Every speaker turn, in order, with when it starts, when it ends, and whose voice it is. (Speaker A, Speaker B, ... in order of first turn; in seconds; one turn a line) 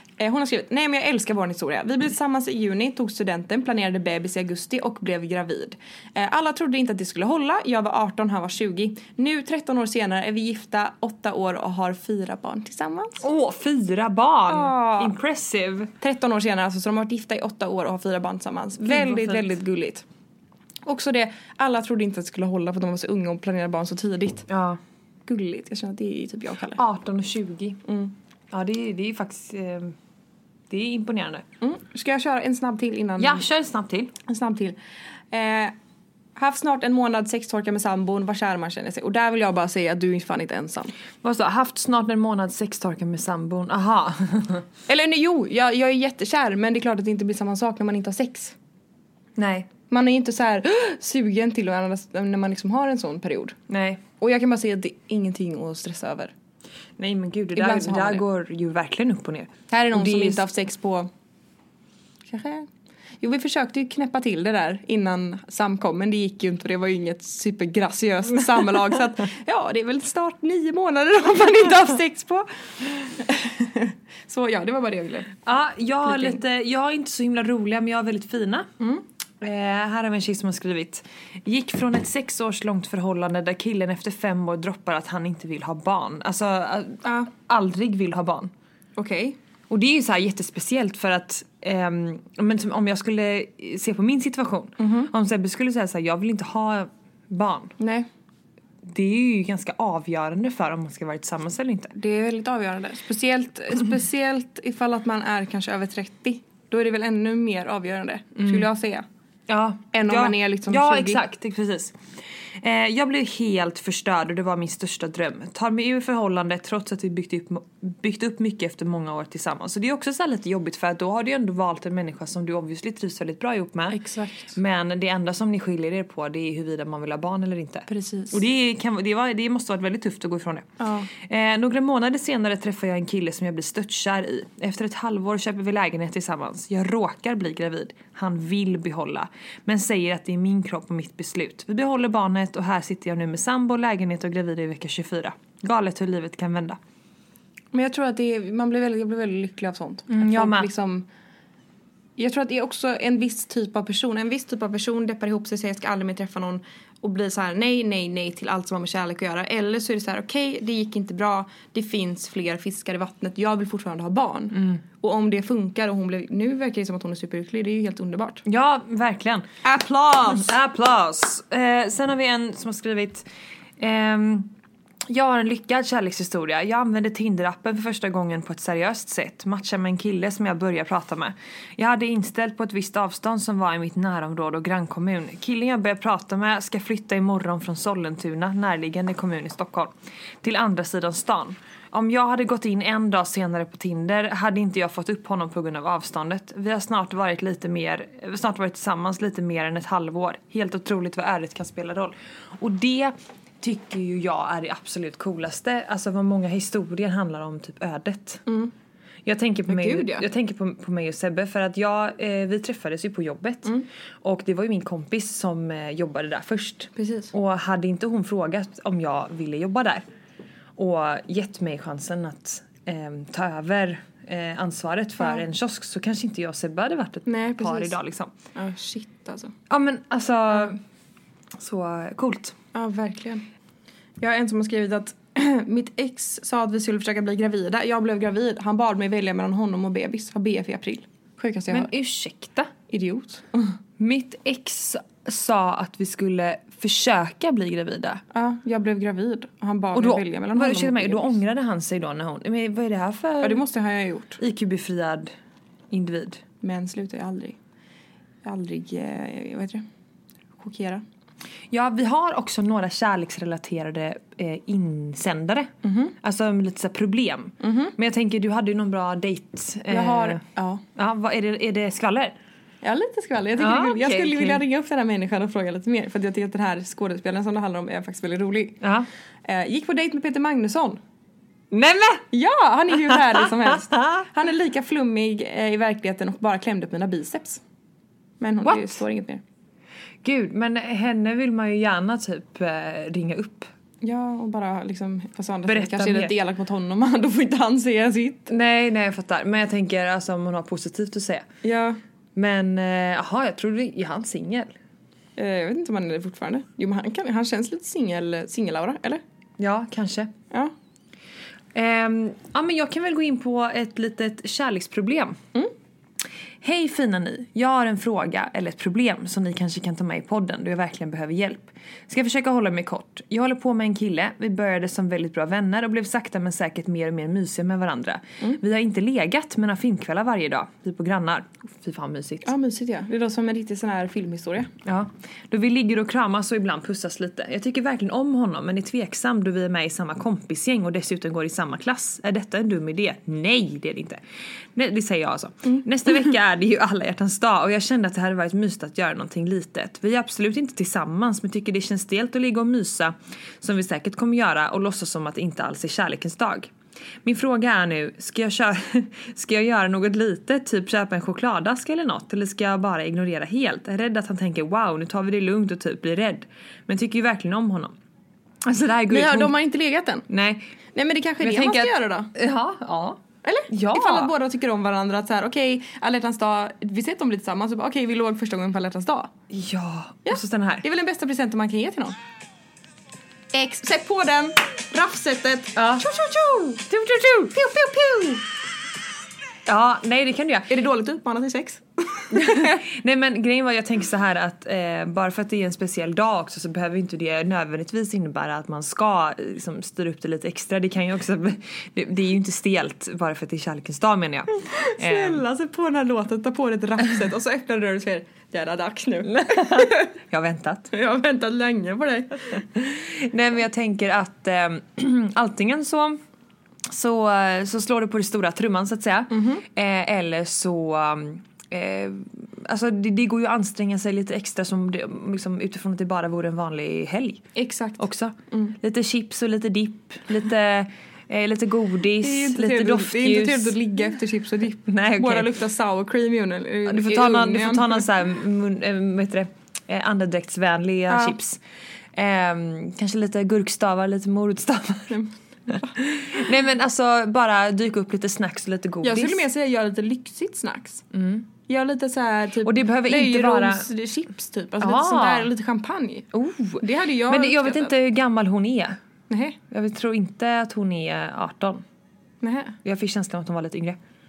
Speaker A: 0.2-13.2
Speaker B: 13.2-15.9
Speaker A: 14.5-15.2
Speaker A: 16.0-20.0
Speaker B: 18.8-19.5
Speaker A: 20.9-24.5
Speaker B: 24.5-24.8
Speaker A: 25.3-26.8
Speaker B: 26.7-27.8
Speaker A: 27.9-28.1
Speaker B: 28.5-29.9
Speaker B: 30.7-31.4
Speaker A: 31.6-33.5
Speaker B: 33.2-34.1
Speaker A: 34.3-34.8
Speaker A: 35.3-35.7
Speaker A: 36.4-40.9
Speaker B: 41.2-44.7
Speaker A: 44.9-48.5
Speaker B: 49.4-49.7
Speaker A: 49.9-53.6
Speaker B: 53.7-54.0
Speaker A: 54.2-56.3
Speaker B: 57.0-60.4
Speaker A: 57.6-58.2
Speaker A: 59.7-61.1
Speaker A: 62.3-62.7
Speaker A: 63.2-72.5
Speaker A: 73.0-75.4
Speaker B: 75.5-78.7
Speaker A: 76.1-76.4
Speaker B: 79.4-88.5
Speaker A: 87.0-87.3
Speaker A: 89.0-89.4
Speaker B: 89.7-97.8
Speaker A: 94.8-95.1
Speaker A: 97.8-98.1
Speaker B: 98.8-101.9
Speaker A: 102.0-109.0
Speaker B: 108.4-108.7
Speaker B: 109.5-112.0
Speaker A: 109.9-111.2
Speaker B: 112.6-146.8
Speaker A: 123.9-124.6
Speaker A: 127.9-128.4
Speaker A: 130.8-131.1
Speaker A: 147.7-151.1
Speaker B: 150.1-150.7
Speaker A: 152.2-168.4
Speaker B: 164.5-164.8
Speaker B: 168.4-169.5
Speaker A: 169.6-170.5
Speaker B: 170.2-173.3
Speaker B: 173.8-174.5
Speaker B: 175.1-208.4
Speaker A: 208.5-208.7
Speaker B: 209.2-220.0
Speaker A: 209.7-210.3
Speaker A: 217.0-217.3
Speaker B: 220.8-228.3
Speaker A: 227.3-228.0
Speaker A: 228.6-229.5
Speaker B: 229.7-230.8
Speaker B: 231.6-232.6
Speaker A: 232.7-233.4
Speaker A: 234.2-241.9
Speaker B: 241.7-242.7
Speaker A: 242.9-243.8
Speaker B: 244.0-248.2
Speaker A: 248.3-251.4
Speaker B: 249.9-253.6
Speaker A: 253.4-254.4
Speaker B: 254.4-255.3
Speaker B: 255.9-256.4
Speaker A: 256.6-257.6
Speaker A: 258.4-259.9
Speaker A: 260.6-261.0
Speaker B: 261.7-270.4
Speaker A: 265.8-266.1
Speaker A: 267.6-267.9
Speaker A: 269.9-270.8
Speaker B: 271.0-272.4
Speaker A: 272.8-278.8
Speaker B: 273.6-274.6
Speaker B: 278.8-279.1
Speaker A: 279.4-281.0
Speaker B: 281.7-282.2
Speaker A: 282.3-287.6
Speaker B: 283.1-284.2
Speaker A: 288.4-289.4
Speaker B: 288.6-289.0
Speaker B: 290.2-293.7
Speaker A: 294.0-298.5
Speaker B: 295.7-296.3
Speaker B: 298.5-301.5
Speaker A: 301.6-302.0
Speaker B: 302.4-304.7
Speaker A: 305.4-309.2
Speaker B: 309.6-310.3
Speaker B: 311.7-315.4
Speaker B: 316.6-332.5
Speaker A: 332.4-334.7
Speaker B: 334.9-344.2
Speaker B: 344.8-356.7
Speaker B: 357.2-368.0
Speaker B: 368.6-369.6
Speaker A: 369.1-370.2
Speaker B: 370.3-370.7
Speaker A: 370.9-372.3
Speaker B: 371.4-374.3
Speaker A: 373.4-379.3
Speaker B: 379.5-380.9
Speaker A: 380.3-382.2
Speaker A: 383.5-388.4
Speaker B: 385.8-386.1
Speaker B: 386.9-387.5
Speaker B: 389.7-390.7
Speaker A: 390.7-392.8
Speaker B: 392.3-405.4
Speaker A: 404.6-410.1
Speaker B: 409.4-410.9
Speaker A: 410.9-412.6
Speaker B: 412.8-416.2
Speaker B: 416.9-433.8
Speaker A: 419.3-419.6
Speaker A: 427.6-428.8
Speaker A: 432.2-438.1
Speaker B: 434.9-435.5
Speaker B: 436.9-441.6
Speaker A: 441.1-441.4
Speaker B: 442.1-445.2
Speaker A: 445.1-445.9
Speaker B: 445.7-449.4
Speaker A: 449.0-451.1
Speaker B: 451.1-451.5
Speaker A: 451.7-456.3
Speaker B: 452.6-453.9
Speaker B: 454.8-455.5
Speaker B: 456.3-459.0
Speaker A: 456.8-457.9
Speaker A: 459.3-459.6
Speaker B: 459.7-461.8
Speaker A: 462.4-462.8
Speaker B: 462.8-464.0